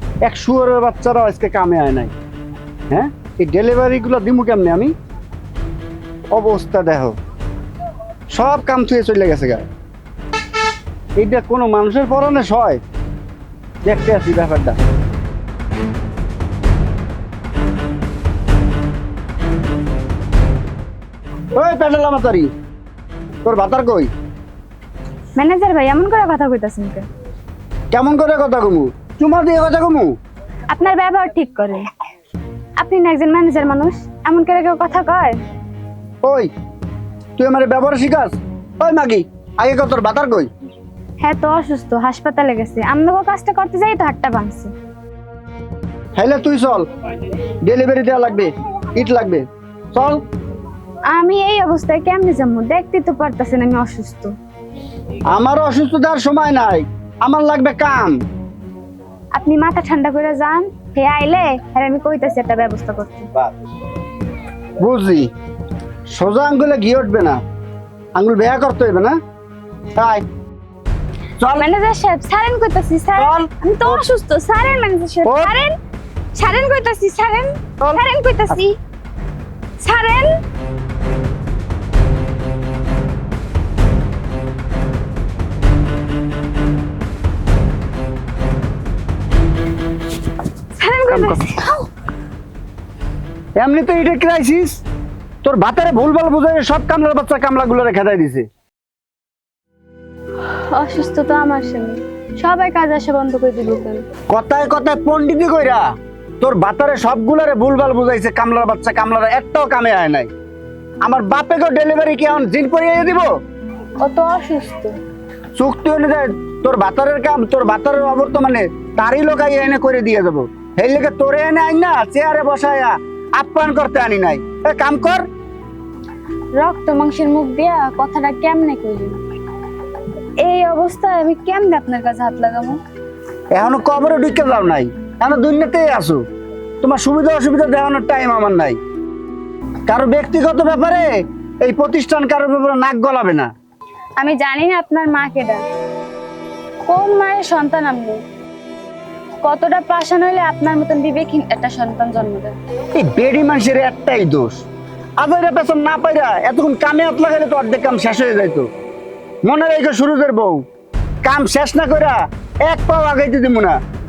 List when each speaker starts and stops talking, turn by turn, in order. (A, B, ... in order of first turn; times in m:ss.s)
0:00.2-0:02.1 A
0:02.9-0:04.9 A
0:06.3-0:07.2 A
0:08.3-0:09.7 A
0:11.2-0:12.8 A
0:13.8-0:14.8 A
0:21.5-0:22.5 A
0:23.4-0:24.1 A
0:25.4-0:27.0 B
0:27.9-0:30.1 A
0:30.7-0:31.8 B
0:32.8-0:35.4 B
0:36.2-0:36.5 A
0:37.4-0:40.5 A
0:41.2-0:44.7 B
0:46.2-0:46.9 A
0:47.6-0:50.2 A
0:51.1-0:54.3 B
0:55.3-0:58.1 A
0:59.4-1:03.3 B
1:04.8-1:05.3 A
1:06.1-1:07.4 A
1:08.2-1:09.2 A
1:10.0-1:10.2 A
1:11.4-1:11.7 A
1:11.6-1:15.7 B
1:13.2-1:14.0 A
1:15.2-1:15.5 A
1:16.4-1:18.7 B
1:17.8-1:18.6 A
1:19.8-1:20.3 B
1:30.8-1:31.9 B
1:31.1-1:31.4 A
1:33.6-1:34.8 A
1:35.4-1:38.4 A
1:40.5-1:44.0 B
1:44.3-1:45.8 A
1:46.4-1:50.3 A
1:51.0-1:53.3 A
1:54.0-1:54.9 B
1:55.6-2:05.2 A
2:06.6-2:09.2 B
2:10.4-2:12.8 B
2:13.5-2:16.2 A
2:16.8-2:18.8 A
2:19.9-2:23.5 A
2:24.2-2:25.6 B
2:26.8-2:28.2 B
2:29.4-2:32.6 B
2:32.9-2:34.6 A
2:35.2-2:38.7 A
2:39.4-2:40.6 A
2:41.2-2:43.8 A